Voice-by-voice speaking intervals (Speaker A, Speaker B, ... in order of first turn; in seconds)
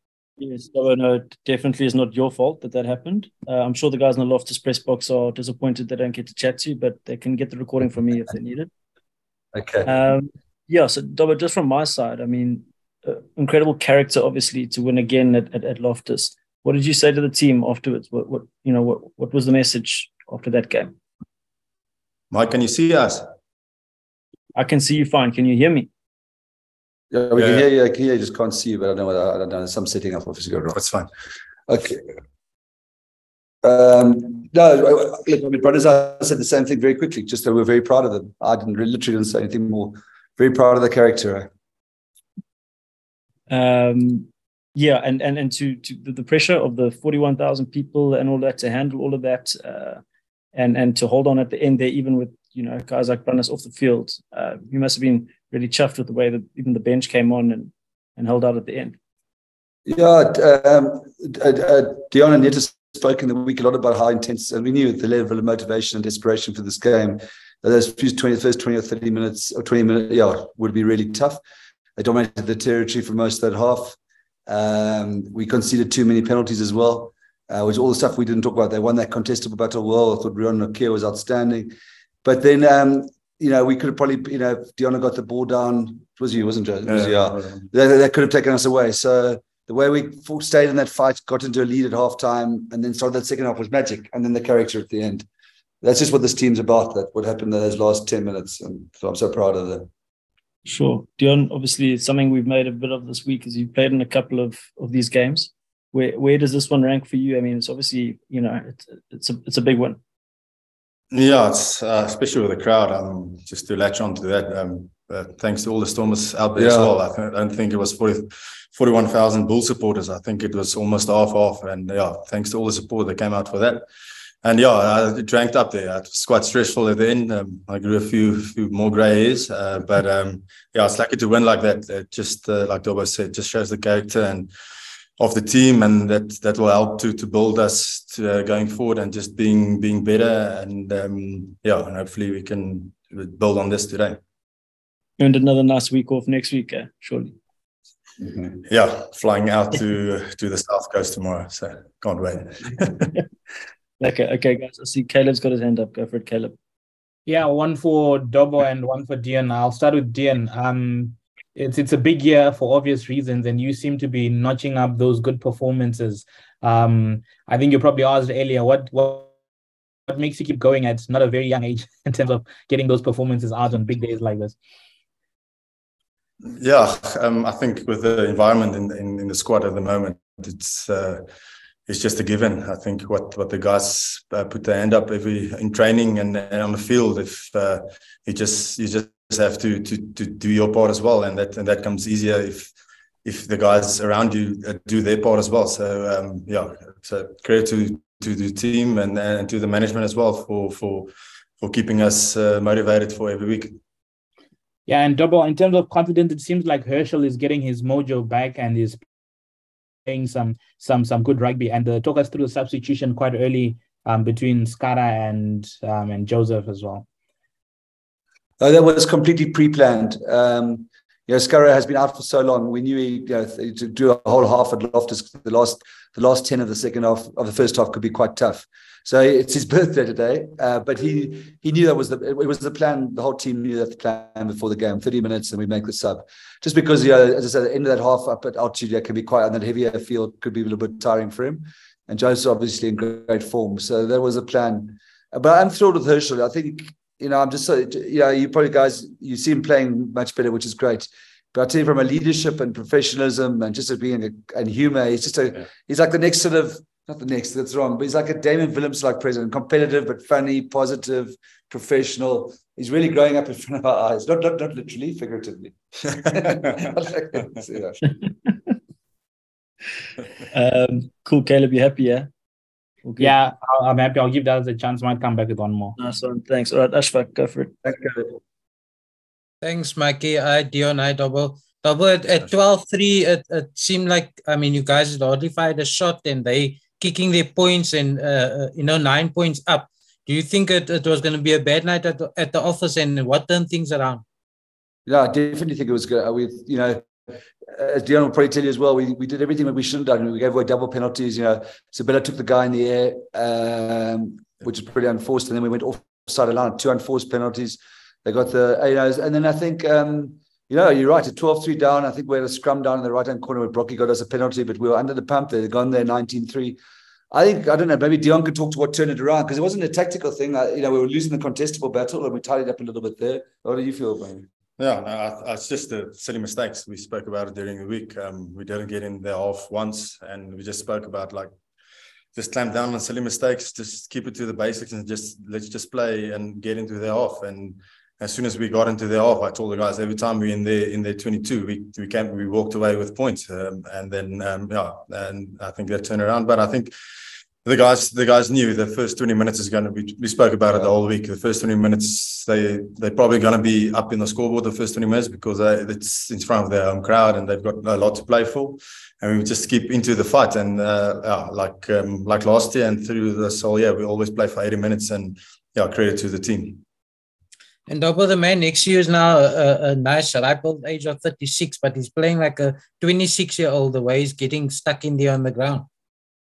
Speaker A: 0.4-8.7, 9.9-20.9, 24.6-25.9, 43.5-50.0, 50.5-59.0, 100.7-110.0, 145.2-147.3, 154.0-156.6, 270.5-272.3, 273.1-273.3, 276.0-277.7
Speaker B: 9.5-9.9, 27.1-30.8, 31.7-32.0, 33.6-41.5, 59.9-71.4, 72.0-81.7, 82.2-95.3, 95.8-99.9, 116.5-116.9, 218.6-268.0, 277.9-278.3, 295.1-297.1, 297.7-316.8, 317.3-324.5
Speaker C: 22.3-23.3, 27.4-27.6, 30.7-31.1, 86.9-87.6, 111.1-123.8, 124.4-134.5, 135.2-144.2, 148.7-153.1, 176.6-181.3, 181.9-192.7, 193.2-203.8, 324.8-331.5, 332.4-346.9, 347.6-366.8
Speaker D: 157.3-169.3, 170.1-174.6, 204.9-209.0, 210.1-217.1, 273.2-276.0
Speaker E: 279.6-294.2, 367.9-375.9